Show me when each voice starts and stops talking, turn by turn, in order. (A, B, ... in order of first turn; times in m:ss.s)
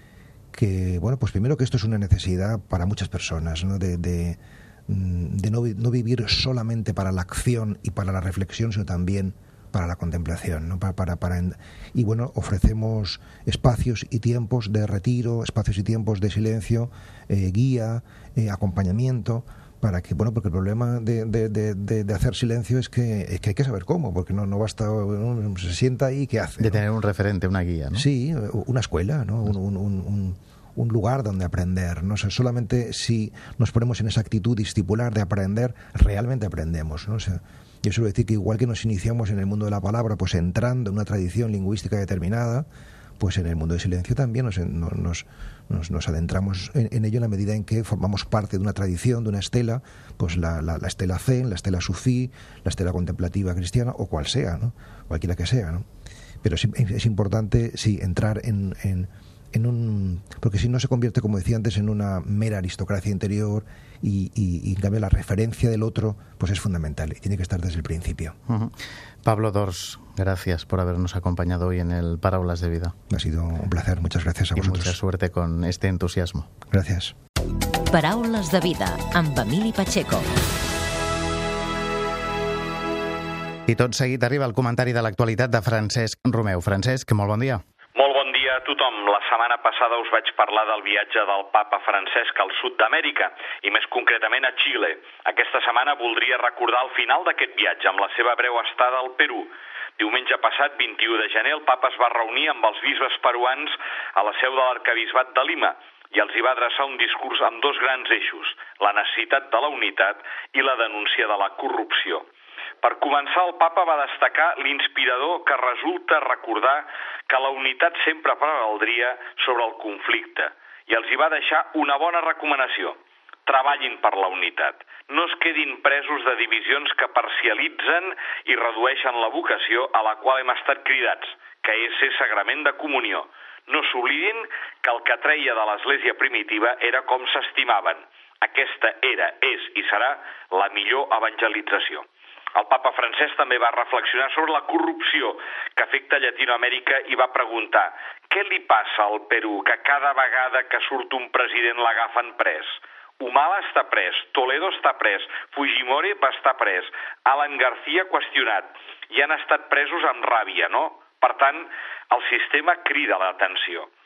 0:00.5-0:26.8 A
0:26.6-0:28.1 B
0:27.9-0:42.7 A
0:43.2-0:55.8 A
0:56.4-1:08.4 A
1:08.5-1:13.0 B
1:13.1-1:15.0 A
1:14.6-1:16.5 B
1:16.7-1:17.2 A
1:17.9-1:20.4 C
1:23.7-1:27.6 B
1:28.0-1:52.2 D
1:52.8-2:43.9 D